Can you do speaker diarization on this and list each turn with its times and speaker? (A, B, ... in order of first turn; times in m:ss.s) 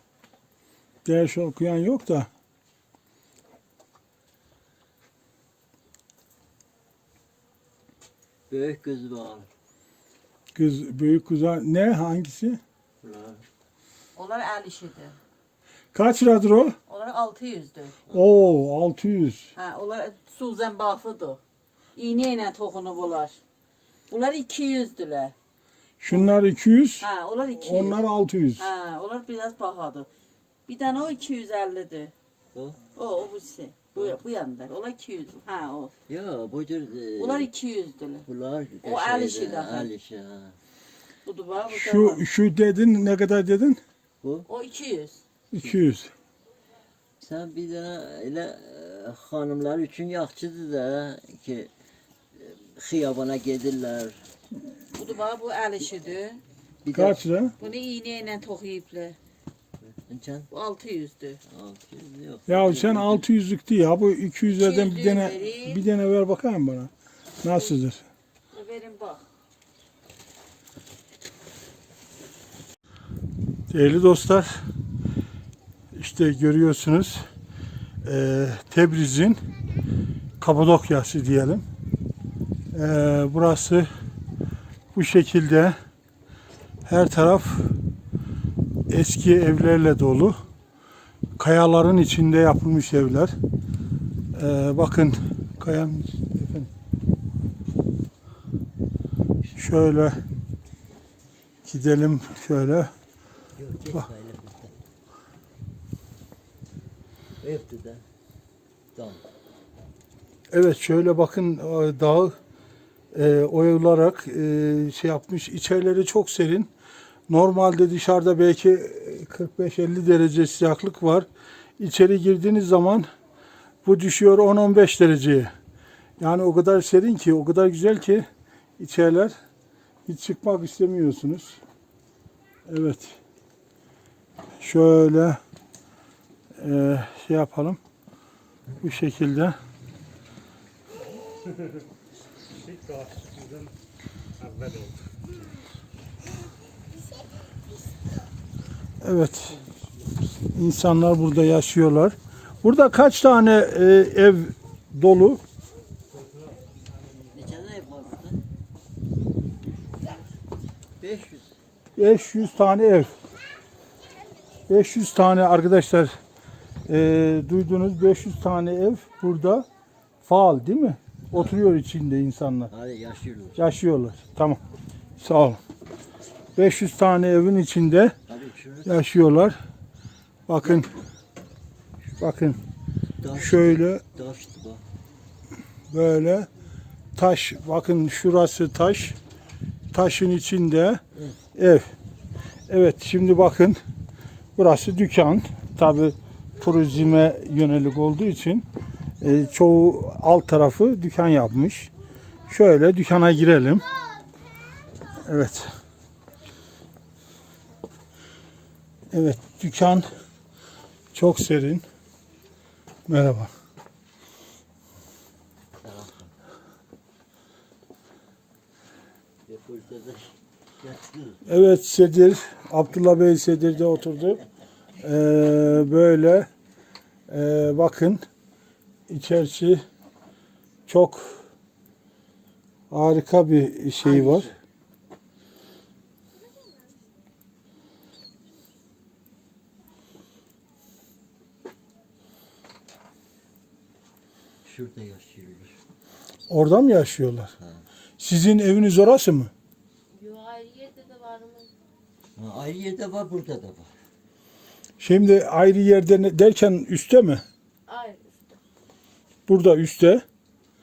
0:01.0-0:02.3 A
0:08.5-0:09.5 B
0:10.6-0:12.6 A
0:13.0-0:13.4 B
0:14.2-0:15.2 C
0:15.9-0:16.8 A
0:16.9-0:18.0 C
0:18.1-0:19.5 A
0:19.6-0:21.4 C
0:22.0-0:23.4 C
0:24.1-0:25.4 C
0:26.0-0:27.0 A
0:27.0-0:28.0 C
0:27.6-0:28.6 A
0:28.6-0:30.1 C
0:30.7-0:32.1 C
0:32.5-0:32.8 B
0:33.0-0:35.9 C
0:36.1-0:37.5 B
0:37.2-0:38.2 C
0:38.3-0:40.6 B
0:38.8-0:39.9 C
0:41.2-0:42.2 C
0:41.7-0:43.8 A
0:44.5-0:45.2 C
0:45.5-0:46.1 A
0:47.2-0:51.7 B
0:52.4-0:54.2 B
0:54.9-0:56.4 C
0:56.8-0:57.2 B
0:56.9-0:57.5 A
0:57.6-0:59.2 C
0:59.8-1:00.5 B
1:00.5-1:01.4 C
1:01.5-1:03.2 B
1:02.5-1:06.9 A
1:04.6-1:05.8 C
1:07.4-1:08.0 A
1:08.5-1:09.2 C
1:13.7-1:14.6 A
1:16.0-1:17.2 A
1:18.0-1:19.4 A
1:20.4-1:21.7 A
1:22.7-1:23.9 A
1:24.9-1:25.7 A
1:26.9-1:27.7 A
1:28.9-1:30.4 A
1:31.4-1:33.4 A
1:34.3-1:36.7 A
1:39.6-1:40.2 A
1:41.6-1:42.9 A
1:43.6-1:44.7 B
1:47.4-1:48.0 B
1:49.0-1:49.2 B
1:50.5-1:52.4 A
1:53.1-1:56.7 A
1:57.3-2:01.3 A
2:01.8-2:03.1 A
2:03.8-2:05.5 A
2:06.2-2:08.3 A
2:08.8-2:09.3 A
2:10.1-2:11.6 A
2:12.7-2:13.2 A
2:14.6-2:15.4 A
2:16.6-2:17.8 A
2:18.8-2:19.6 A
2:29.0-2:29.6 A
2:30.5-2:35.4 A
2:37.3-2:38.4 B
2:41.0-2:41.5 B
2:42.0-2:43.1 A
2:44.7-2:46.1 A
2:46.9-2:49.7 A
2:50.2-2:52.7 A
2:51.3-2:51.6 B
2:52.7-2:53.6 B
2:53.6-2:54.6 A
2:55.2-2:55.6 A
2:56.6-2:58.2 A
2:58.3-2:59.0 B
2:58.9-2:59.6 A
3:00.5-3:00.9 A
3:00.6-3:00.9 B
3:02.2-3:02.6 A
3:03.2-3:04.8 B
3:03.3-3:04.0 A
3:05.9-3:06.5 A
3:07.2-3:09.2 A
3:09.9-3:11.0 A
3:11.6-3:11.9 A
3:12.7-3:13.8 A
3:14.6-3:18.7 A
3:19.2-3:21.9 A
3:22.5-3:23.8 A
3:25.2-3:25.7 A
3:29.1-3:30.1 A
3:31.1-3:31.8 A
3:33.1-3:33.5 A
3:35.8-3:36.3 B
3:39.5-3:41.4 B
3:41.5-3:44.4 A
3:45.0-3:46.5 A
3:47.3-3:48.2 A
3:49.1-3:49.8 A
3:50.9-3:51.4 A
3:52.9-3:54.5 A
3:54.0-3:54.6 B
4:04.6-4:05.8 B
4:06.5-4:07.5 A
4:08.2-4:09.5 A
4:10.1-4:11.7 D
4:12.4-4:13.9 B
4:15.0-4:17.4 A
4:17.9-4:18.6 D
4:19.5-4:20.2 A